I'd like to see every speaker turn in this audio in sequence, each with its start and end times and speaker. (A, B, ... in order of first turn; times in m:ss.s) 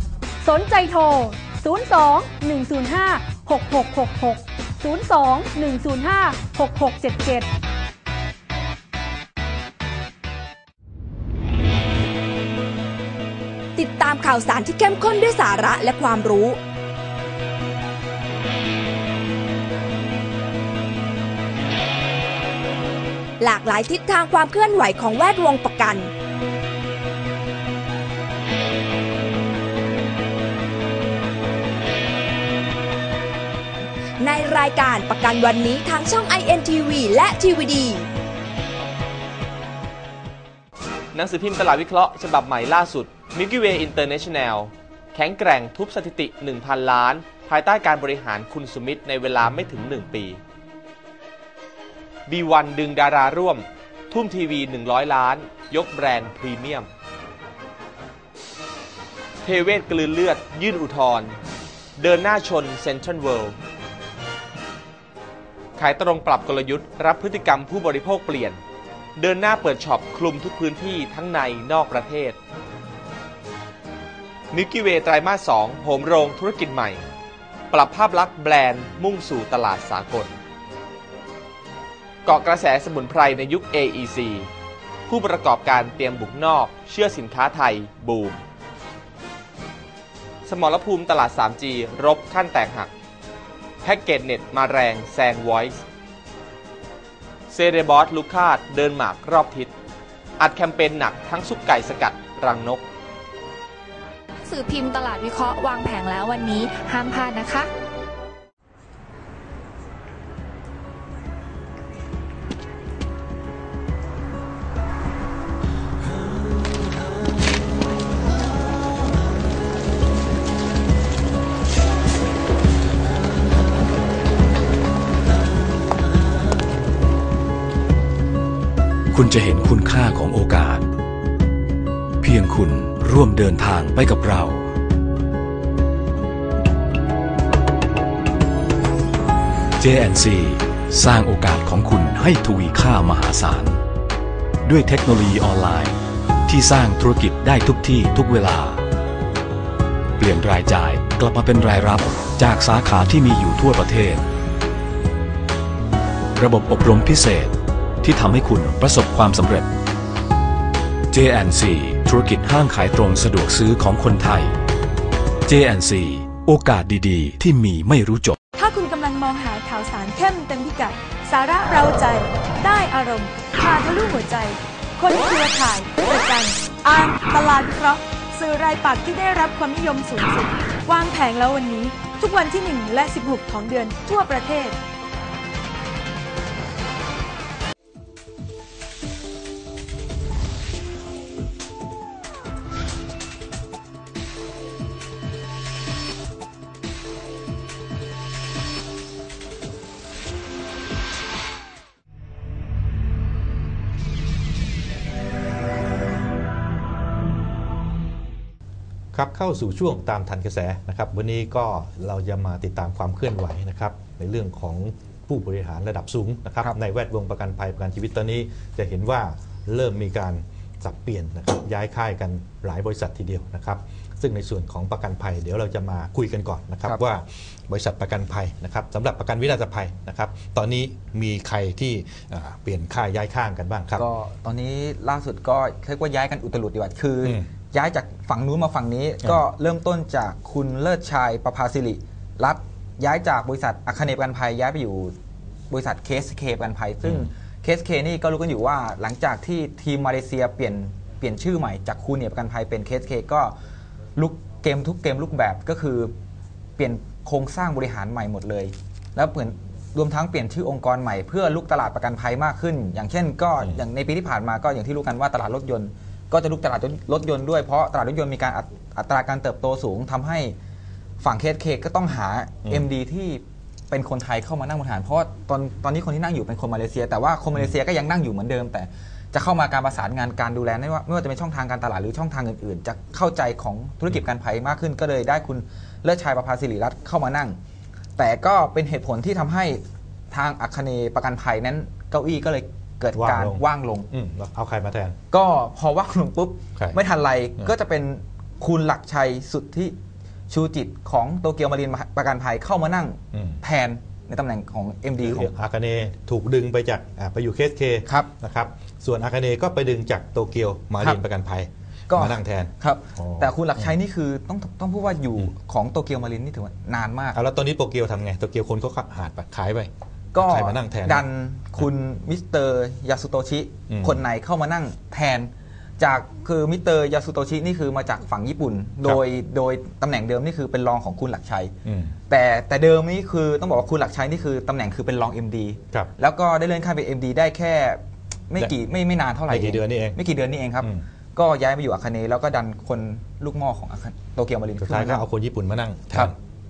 0:00.4-0:07.5 A
0:13.8-0:16.6 B
0:23.4-0:26.1 B
0:34.2-0:38.1 B
0:41.1-0:50.4 C
0:52.3-0:56.9 C
0:59.4-1:01.3 C
1:02.0-1:03.6 C
1:05.8-1:08.6 C
1:09.2-1:12.4 C
1:14.5-1:17.0 C
1:17.7-1:20.3 C
1:22.2-1:24.5 C
1:25.1-1:28.4 C
1:30.4-1:32.9 C
1:33.8-1:35.8 C
1:37.5-1:39.7 C
1:40.4-1:42.8 C
1:44.4-1:47.7 D
2:09.1-2:10.9 E
2:12.2-2:14.7 E
2:19.8-2:23.8 E
2:24.6-2:28.8 E
2:30.2-2:34.2 E
2:36.4-2:39.7 E
2:41.1-2:44.6 E
2:45.5-2:48.4 E
2:48.5-3:04.8 F
3:29.1-3:54.0 G
3:54.0-4:05.1 H
4:05.7-4:13.5 H
4:07.0-4:07.3 G
4:14.1-4:16.1 H
4:16.8-4:30.5 H
4:31.2-4:47.6 H
4:48.2-4:54.1 H
4:53.1-4:55.2 G
4:55.3-5:00.0 H
5:00.5-5:05.5 H
5:03.3-5:03.6 G
5:05.2-5:13.9 G
5:12.1-5:17.4 H
5:17.3-5:21.2 G
5:20.3-5:31.7 H
5:23.9-5:24.2 G
5:31.8-5:32.1 G
5:32.3-5:45.2 H
5:39.5-5:40.2 G
5:44.8-5:46.3 G